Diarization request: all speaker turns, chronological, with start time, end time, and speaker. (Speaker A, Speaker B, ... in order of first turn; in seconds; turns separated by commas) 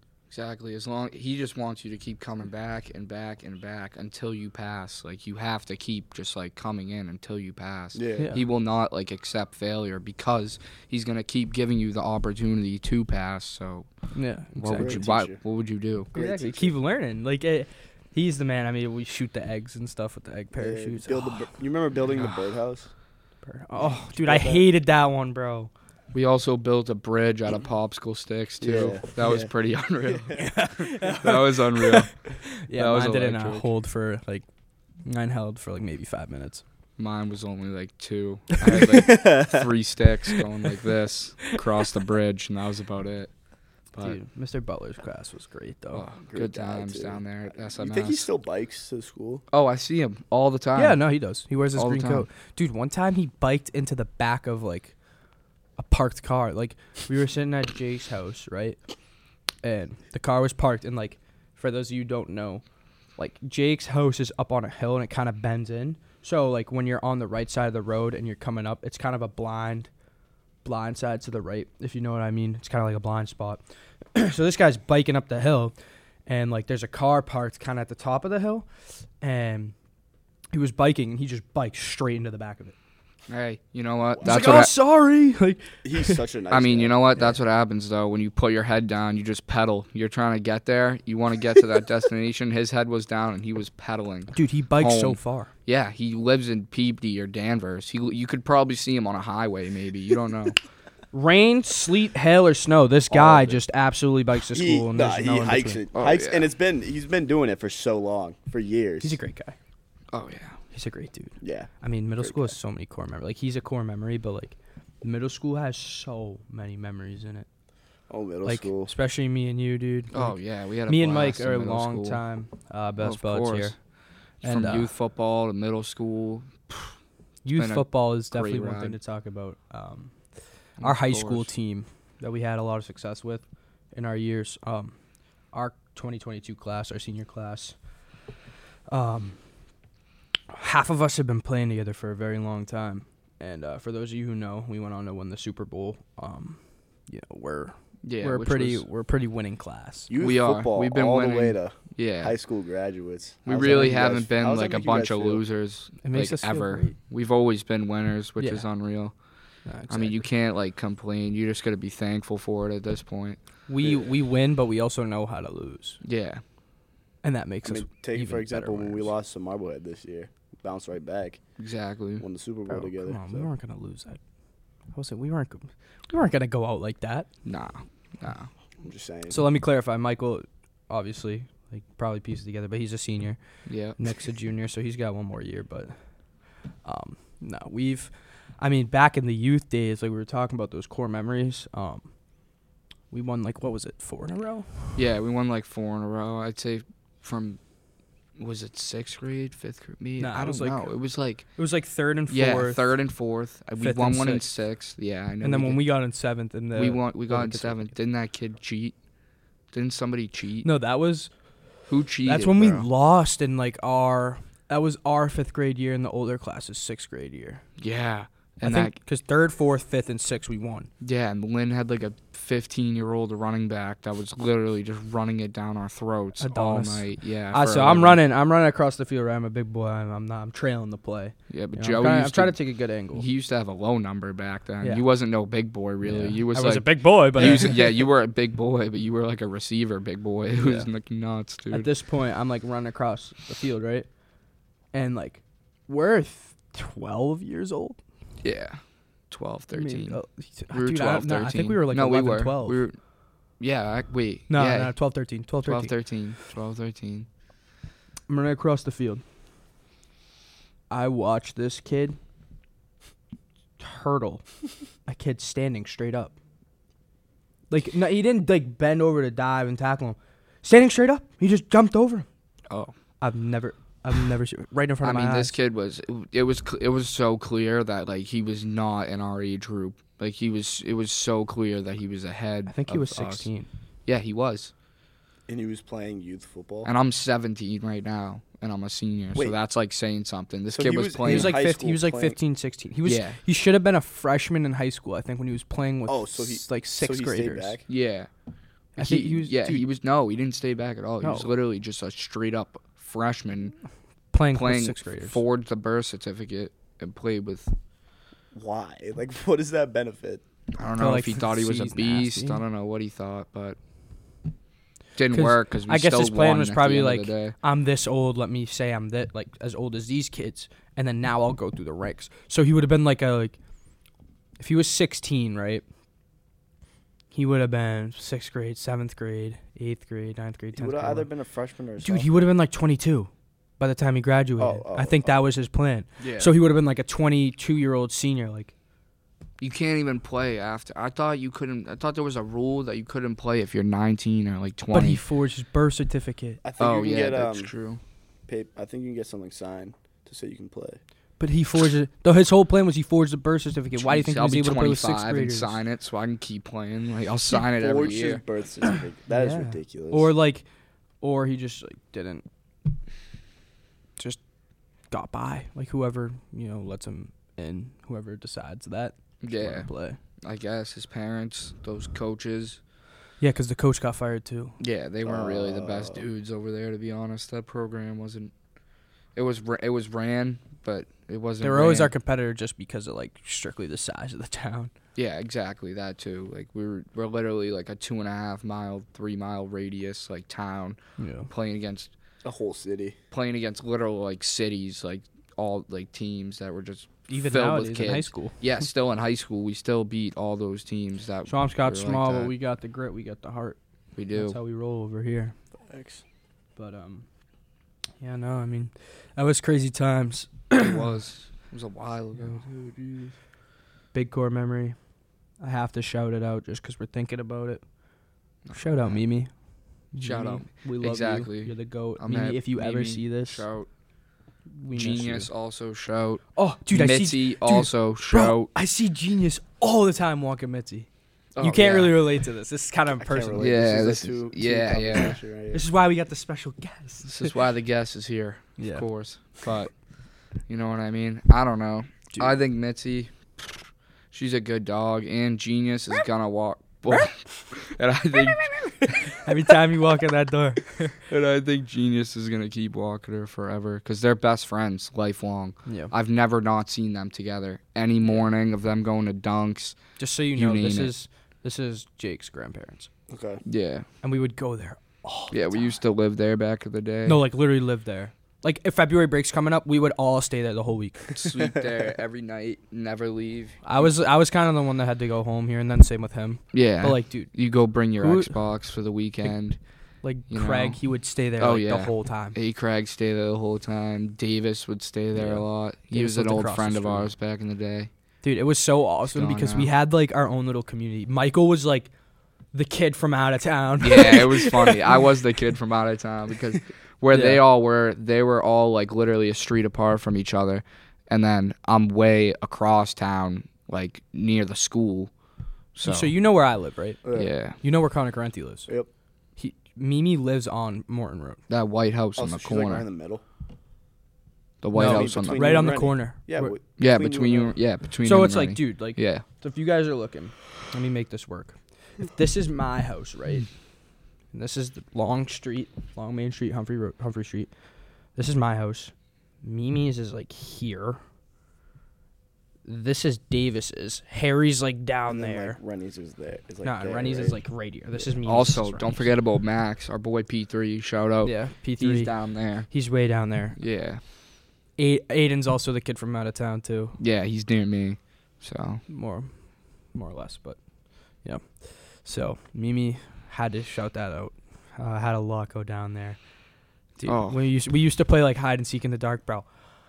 Speaker A: 0.3-13.9, Speaker B: 7.9-8.3, Speaker C: 14.1-15.0, Speaker A: 14.6-16.1, Speaker B: 14.8-15.4, Speaker B: 16.1-16.7, Speaker C: 16.1-21.5, Speaker B: 20.6-22.9, Speaker C: 23.4-25.7, Speaker B: 24.1-24.7, Speaker A: 26.1-33.7, Speaker B: 28.6-29.5, Speaker C: 30.3-34.5, Speaker C: 35.0-36.6, Speaker A: 37.0-43.3, Speaker B: 38.8-39.7, Speaker C: 44.0-46.1, Speaker A: 45.9-48.2, Speaker B: 46.3-49.4, Speaker A: 49.5-51.0, Speaker C: 50.8-54.9, Speaker A: 51.7-52.2, Speaker C: 55.8-58.8, Speaker C: 59.6-62.6, Speaker C: 63.1-69.9, Speaker C: 70.6-73.6, Speaker C: 74.1-75.7, Speaker C: 76.2-78.7, Speaker C: 79.2-79.7, Speaker C: 80.5-82.7, Speaker A: 83.3-84.7, Speaker C: 84.2-86.2, Speaker B: 85.8-87.1, Speaker A: 86.5-100.6, Speaker C: 94.3-95.5, Speaker C: 101.1-105.8, Speaker B: 103.1-103.6, Speaker B: 104.5-109.2, Speaker A: 105.9-106.5, Speaker C: 109.0-109.5, Speaker A: 110.1-110.6, Speaker C: 110.7-117.5, Speaker B: 111.4-112.5, Speaker B: 118.1-118.9, Speaker C: 118.4-123.8, Speaker A: 120.1-122.2, Speaker A: 123.0-123.8, Speaker C: 124.4-124.9, Speaker A: 124.4-126.9, Speaker C: 127.4-135.0, Speaker A: 127.5-129.0, Speaker A: 130.8-131.5, Speaker C: 135.5-137.8, Speaker C: 138.9-139.4, Speaker C: 140.5-150.1, Speaker A: 148.0-148.8, Speaker B: 150.1-155.4, Speaker A: 150.2-152.3, Speaker A: 153.4-159.1, Speaker C: 153.6-154.0, Speaker C: 156.0-156.9, Speaker C: 158.4-158.7, Speaker C: 159.6-160.2, Speaker A: 159.9-163.4, Speaker C: 163.7-166.0, Speaker A: 166.0-166.4, Speaker C: 167.2-169.1, Speaker B: 167.6-171.4, Speaker A: 171.6-172.2, Speaker B: 172.2-173.5, Speaker C: 172.7-174.2, Speaker C: 174.9-177.3, Speaker A: 177.4-178.5, Speaker B: 178.8-179.4, Speaker C: 179.3-192.1, Speaker A: 183.7-184.0, Speaker C: 193.1-194.9, Speaker A: 194.9-197.6, Speaker A: 198.4-201.6, Speaker C: 200.2-200.9, Speaker C: 201.4-202.9, Speaker A: 202.3-205.8, Speaker C: 203.8-204.5, Speaker C: 205.4-207.9, Speaker A: 206.7-208.9, Speaker A: 209.7-210.7, Speaker C: 210.6-211.3, Speaker A: 211.9-212.9, Speaker C: 212.2-217.6, Speaker A: 217.8-218.9, Speaker C: 218.6-220.9, Speaker A: 221.0-228.2, Speaker C: 226.4-233.2, Speaker A: 231.5-241.9, Speaker C: 236.0-237.9, Speaker C: 240.5-240.9, Speaker C: 241.7-244.1, Speaker C: 244.9-248.0, Speaker A: 248.4-253.0, Speaker C: 249.7-252.8, Speaker A: 253.6-255.0, Speaker C: 254.5-255.9, Speaker A: 255.6-257.3, Speaker C: 258.3-259.2, Speaker C: 260.9-262.2, Speaker C: 263.8-264.5, Speaker C: 265.0-266.3, Speaker C: 267.7-272.2, Speaker C: 273.2-275.5, Speaker A: 275.0-283.5, Speaker C: 282.7-283.7, Speaker A: 284.1-284.7, Speaker B: 285.5-286.9, Speaker A: 286.8-291.6, Speaker B: 290.7-292.4, Speaker C: 291.2-297.8, Speaker A: 293.0-293.4, Speaker B: 296.1-297.8, Speaker A: 297.9-298.3, Speaker C: 299.0-299.8, Speaker A: 299.0-303.8, Speaker C: 301.2-301.5, Speaker C: 304.3-305.4, Speaker A: 304.5-307.7, Speaker B: 308.5-310.4, Speaker A: 310.7-313.8, Speaker C: 311.0-312.6, Speaker A: 315.1-317.6, Speaker C: 315.3-323.6, Speaker C: 324.6-325.8, Speaker C: 327.3-331.3, Speaker B: 330.7-332.4, Speaker C: 332.0-338.7, Speaker B: 334.6-335.3, Speaker A: 336.2-336.5, Speaker A: 339.6-345.2, Speaker C: 344.9-346.6, Speaker B: 346.6-347.7, Speaker A: 346.8-348.0, Speaker B: 348.5-351.0, Speaker C: 351.4-355.8, Speaker A: 353.9-358.4, Speaker B: 357.5-360.3, Speaker C: 359.3-360.6, Speaker C: 361.2-362.4, Speaker C: 365.1-370.2, Speaker A: 369.4-369.9, Speaker A: 370.4-372.8, Speaker C: 373.4-374.8, Speaker A: 374.8-378.5, Speaker B: 375.2-376.2, Speaker A: 379.3-382.1, Speaker C: 381.6-384.9, Speaker A: 385.1-391.0, Speaker C: 391.2-391.5, Speaker A: 391.5-392.1, Speaker B: 392.4-393.2, Speaker A: 393.3-402.5, Speaker C: 397.3-398.6, Speaker C: 401.4-403.8, Speaker A: 404.1-404.6, Speaker C: 404.3-405.6, Speaker B: 405.9-406.2, Speaker C: 406.8-407.2, Speaker C: 408.2-411.0, Speaker A: 410.8-412.6, Speaker B: 412.6-413.3, Speaker C: 414.1-414.9, Speaker C: 415.6-417.8, Speaker A: 418.6-419.2, Speaker C: 418.7-419.5, Speaker C: 420.1-423.6, Speaker A: 420.2-423.9, Speaker C: 424.7-425.5, Speaker A: 424.9-428.7, Speaker C: 426.5-433.7, Speaker A: 431.6-432.2, Speaker B: 433.2-435.9, Speaker A: 433.6-435.4, Speaker C: 435.7-437.5, Speaker A: 437.2-439.9, Speaker C: 438.8-439.1, Speaker A: 440.7-449.4, Speaker C: 449.4-451.2, Speaker A: 451.3-461.1, Speaker C: 455.8-456.1, Speaker C: 460.2-463.1, Speaker B: 463.3-463.6, Speaker A: 463.6-464.1, Speaker C: 464.2-466.0, Speaker A: 465.5-467.4, Speaker C: 467.2-471.4, Speaker A: 471.4-474.1, Speaker C: 473.8-477.5, Speaker A: 476.7-479.8, Speaker C: 478.2-478.5, Speaker C: 480.2-482.6, Speaker A: 480.5-481.0, Speaker A: 481.6-488.1, Speaker C: 485.3-487.3, Speaker C: 488.4-492.1, Speaker A: 489.3-489.9, Speaker C: 492.7-495.1, Speaker A: 494.0-505.3, Speaker C: 497.3-497.6, Speaker A: 505.9-506.3, Speaker C: 506.0-508.9, Speaker B: 507.2-507.5, Speaker A: 507.3-507.8, Speaker C: 509.6-511.6, Speaker A: 511.7-513.0, Speaker B: 512.4-513.4, Speaker A: 514.8-515.9, Speaker C: 514.9-516.8, Speaker B: 514.9-517.8, Speaker A: 517.0-519.4, Speaker C: 518.2-523.7, Speaker C: 524.5-527.7, Speaker C: 528.3-531.2, Speaker C: 532.8-535.8, Speaker B: 535.3-537.6, Speaker C: 536.8-539.3, Speaker A: 538.4-542.9, Speaker C: 541.4-543.8, Speaker A: 543.8-544.2, Speaker C: 545.0-547.2, Speaker A: 547.2-549.0, Speaker C: 549.1-556.4, Speaker C: 557.1-559.7, Speaker A: 557.2-557.6